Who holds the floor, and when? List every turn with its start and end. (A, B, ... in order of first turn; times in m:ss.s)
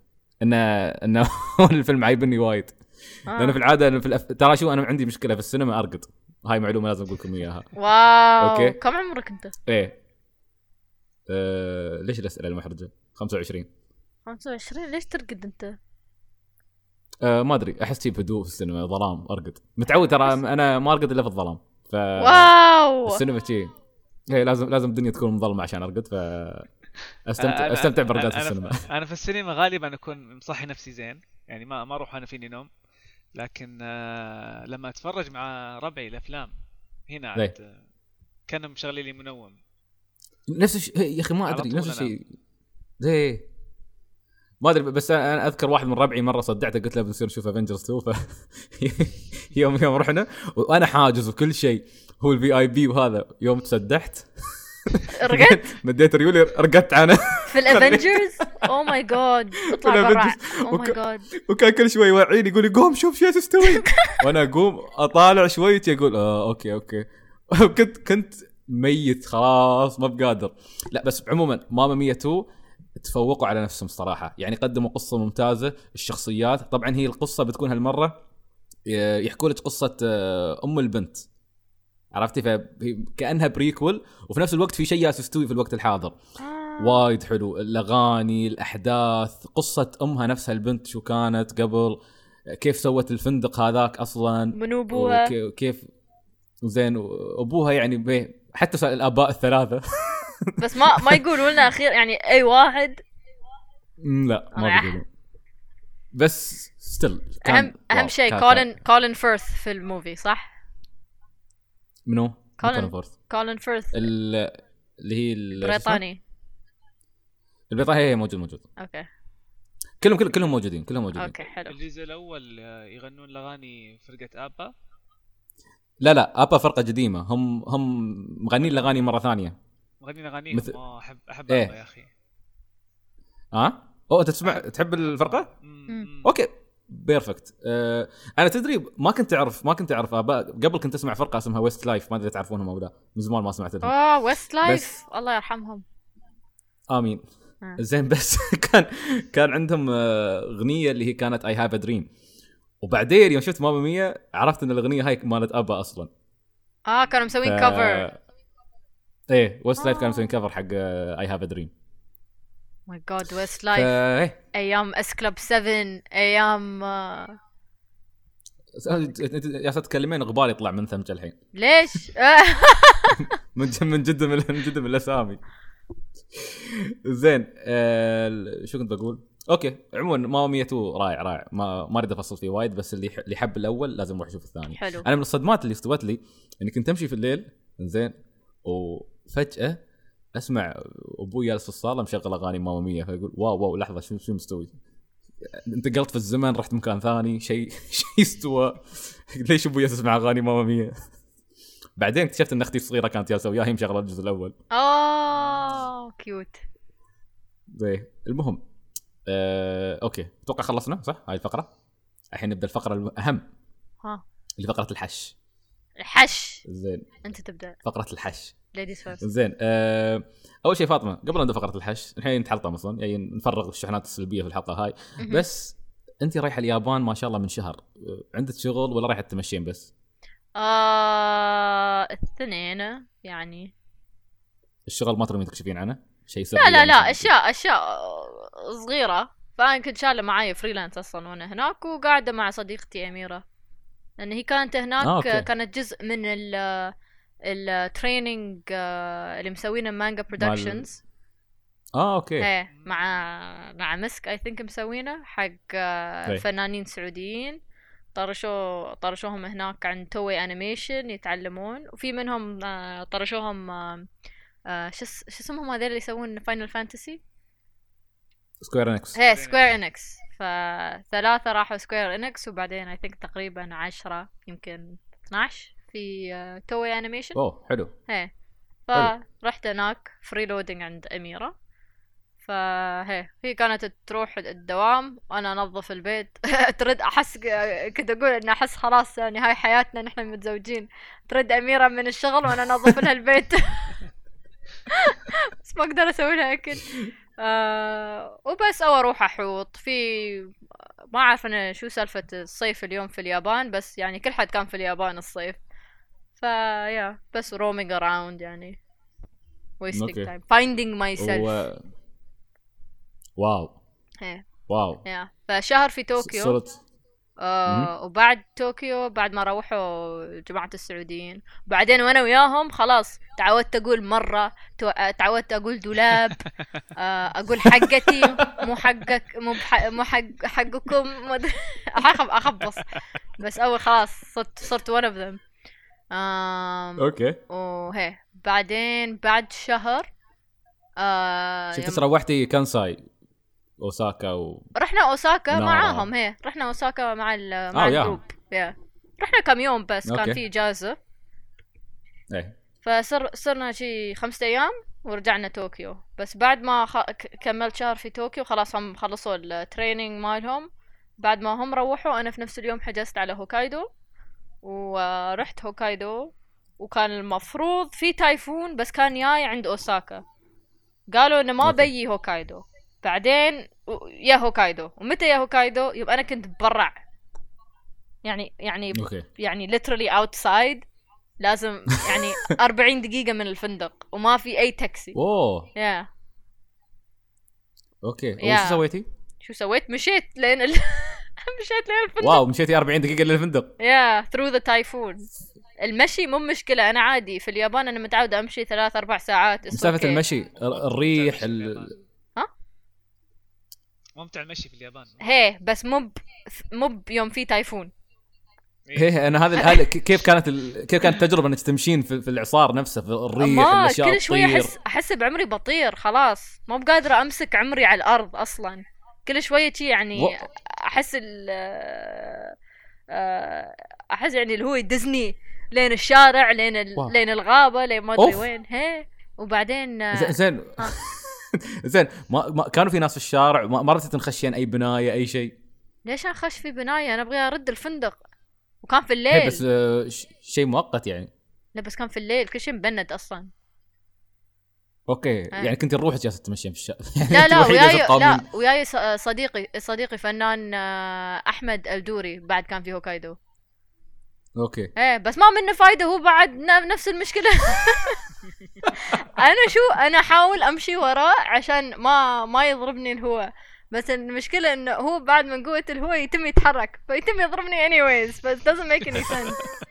0:00.4-0:02.8 A
0:03.3-0:03.6 B
0:03.3-0:07.7 A
0:07.8-0:09.5 B
0:08.4-0:08.8 A
0:09.7-0:10.0 A
0:11.3-0:13.7 A
0:14.3-0:15.8 B
0:17.2-0:22.5 A
0:19.9-0:20.3 B
0:22.2-0:23.2 B
0:23.0-0:23.7 A
0:24.3-0:26.7 A
0:27.3-0:28.8 A
0:27.4-0:32.7 C
0:33.4-0:36.5 C
0:37.1-0:37.8 C
0:38.5-0:39.6 C
0:40.5-0:42.3 A
0:41.4-0:42.1 C
0:43.0-0:43.4 A
0:44.6-0:58.7 A
0:55.1-0:55.6 B
0:57.5-1:01.3 B
0:59.6-1:12.4 A
1:03.6-1:04.2 B
1:13.0-1:18.1 A
1:18.9-1:21.2 A
1:22.1-1:26.2 A
1:26.4-1:27.1 B
1:26.8-1:35.8 A
1:34.5-1:35.3 B
1:36.6-1:41.2 A
1:40.6-1:43.0 B
1:44.0-1:45.0 A
1:44.5-1:45.0 B
1:46.1-1:48.7 A
1:47.4-1:50.5 B
1:52.1-1:53.1 A
1:52.6-1:54.1 B
1:53.9-1:56.0 A
1:55.6-1:56.2 B
1:57.7-1:58.6 A
1:58.8-1:59.0 B
2:00.0-2:01.4 A
2:01.2-2:01.8 B
2:01.6-2:04.7 C
2:06.0-2:09.6 A
2:10.0-2:12.1 C
2:10.5-2:10.8 A
2:13.5-2:15.5 A
2:14.4-2:16.3 C
2:16.2-2:23.9 A
2:23.8-2:25.8 B
2:26.9-2:27.2 A
2:27.8-2:32.1 A
2:32.8-2:36.1 A
2:36.9-2:38.1 B
2:37.4-2:38.2 A
2:39.3-2:41.7 A
2:39.8-2:40.3 B
2:42.9-2:44.0 B
2:43.7-2:44.4 A
2:44.5-2:47.4 B
2:48.8-2:51.4 A
2:51.6-2:53.3 B
2:53.2-2:55.4 A
2:56.3-3:08.1 A
3:04.7-3:05.0 B
3:08.6-3:09.8 A
3:10.4-3:14.7 A
3:15.4-3:20.9 A
3:22.0-3:24.5 A
3:24.7-3:26.6 B
3:25.3-3:25.9 C
3:27.7-3:28.6 A
3:29.3-3:31.7 A
3:32.3-3:33.5 A
3:34.6-3:35.3 A
3:36.0-3:36.6 B
3:36.6-3:37.2 A
3:37.2-3:37.8 B
3:37.8-3:38.5 A
3:38.7-3:39.2 B
3:39.2-3:49.9 A
3:50.6-3:53.7 B
3:54.9-3:57.3 A
3:56.5-4:03.4 B
4:04.2-4:06.9 B
4:05.0-4:05.5 A
4:07.4-4:11.0 B
4:10.4-4:10.8 A
4:11.9-4:12.5 A
4:12.4-4:17.6 B
4:12.7-4:13.0 C
4:18.1-4:24.1 B
4:24.7-4:27.2 B
4:28.6-4:29.2 A
4:29.1-4:37.4 B
4:29.2-4:29.7 C
4:37.3-4:37.9 A
4:38.9-4:41.5 B
4:42.4-4:54.0 B
4:54.9-5:00.5 B
5:01.1-5:05.6 B
5:06.4-5:08.8 B
5:09.8-5:11.6 B
5:09.9-5:10.3 A
5:11.2-5:11.8 A
5:13.4-5:13.7 A
5:14.7-5:15.0 A
5:15.0-5:16.6 B
5:16.2-5:16.8 A
5:17.4-5:35.4 B
5:17.7-5:17.9 A
5:27.7-5:28.7 A
5:36.1-5:40.1 B
5:37.0-5:37.4 A
5:41.0-5:42.0 B
5:41.7-5:43.0 A
5:43.8-5:44.7 A
5:44.8-5:51.0 B
5:45.5-5:46.1 A
5:47.7-5:48.2 A
5:50.0-5:50.4 A
5:52.3-5:52.5 A
5:52.8-6:00.7 B
6:01.2-6:03.9 B
6:04.6-6:10.2 B
6:11.1-6:17.0 B
6:11.6-6:11.9 A
6:18.2-6:20.8 B
6:18.9-6:19.3 A
6:21.4-6:25.2 B
6:25.1-6:25.7 A
6:25.8-6:26.1 B
6:28.0-6:29.0 A
6:28.4-6:28.8 B
6:29.4-6:32.4 B
6:32.2-6:33.7 A
6:33.8-6:35.3 B
6:35.8-6:40.2 B
6:39.7-6:41.9 A
6:40.6-6:42.0 C
6:44.2-6:45.2 C
6:45.2-6:47.9 B
6:48.9-6:49.1 C
6:48.9-6:54.7 A
6:53.4-7:02.5 B
7:03.1-7:10.9 B
7:08.2-7:08.4 A
7:10.1-7:15.5 A
7:16.1-7:18.2 B
7:18.8-7:19.6 B
7:19.3-7:21.3 A
7:21.8-7:23.5 B
7:25.1-7:28.4 A
7:27.3-7:33.4 B
7:34.6-7:34.9 A
7:35.0-7:38.2 B
7:38.9-7:49.6 B